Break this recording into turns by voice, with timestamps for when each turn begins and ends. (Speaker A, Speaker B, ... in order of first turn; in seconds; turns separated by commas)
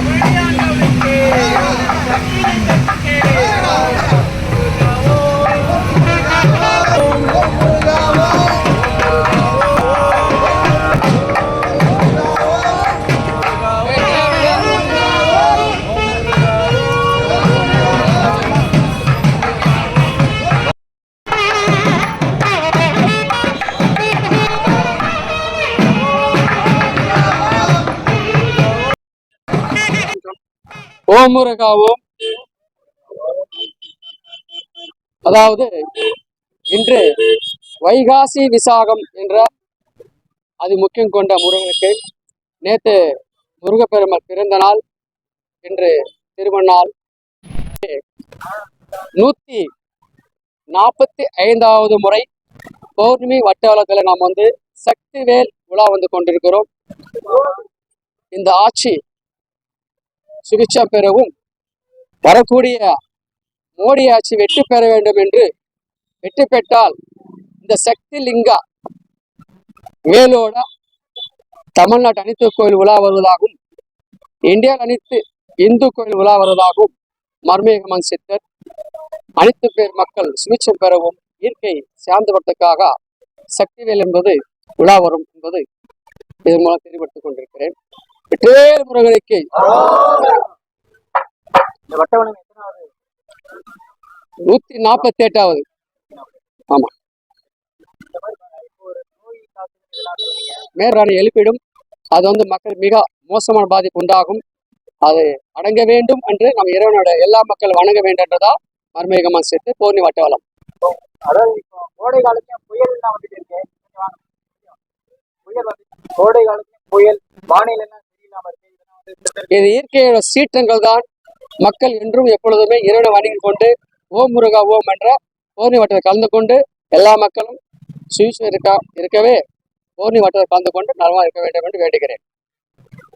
Speaker A: 0.6-1.5, Speaker B: 14.0-14.8, Speaker B: 31.1-32.0, Speaker B: 35.3-36.1, Speaker B: 36.7-39.5, Speaker B: 40.6-42.0, Speaker B: 42.6-43.0, Speaker B: 43.6-44.8, Speaker B: 45.6-46.9, Speaker B: 49.2-49.7, Speaker B: 50.7-52.3, Speaker B: 53.0-56.7, Speaker B: 58.3-59.0, Speaker B: 60.5-61.3, Speaker B: 62.2-63.0, Speaker B: 63.8-65.5, Speaker B: 66.2-67.0, Speaker B: 67.6-68.6, Speaker B: 70.1-70.6, Speaker B: 71.8-73.6, Speaker B: 74.5-76.9, Speaker B: 77.5-78.4, Speaker B: 79.4-82.9, Speaker B: 83.6-85.6, Speaker B: 86.5-87.7, Speaker B: 88.3-89.9, Speaker A: 91.9-92.9, Speaker B: 94.5-95.6, Speaker A: 98.1-100.7, Speaker B: 100.8-101.6, Speaker B: 102.2-104.4, Speaker B: 105.1-110.4, Speaker A: 111.3-114.8, Speaker A: 115.5-119.5, Speaker B: 119.5-121.0, Speaker B: 121.6-127.6, Speaker B: 128.1-129.4, Speaker B: 130.0-132.2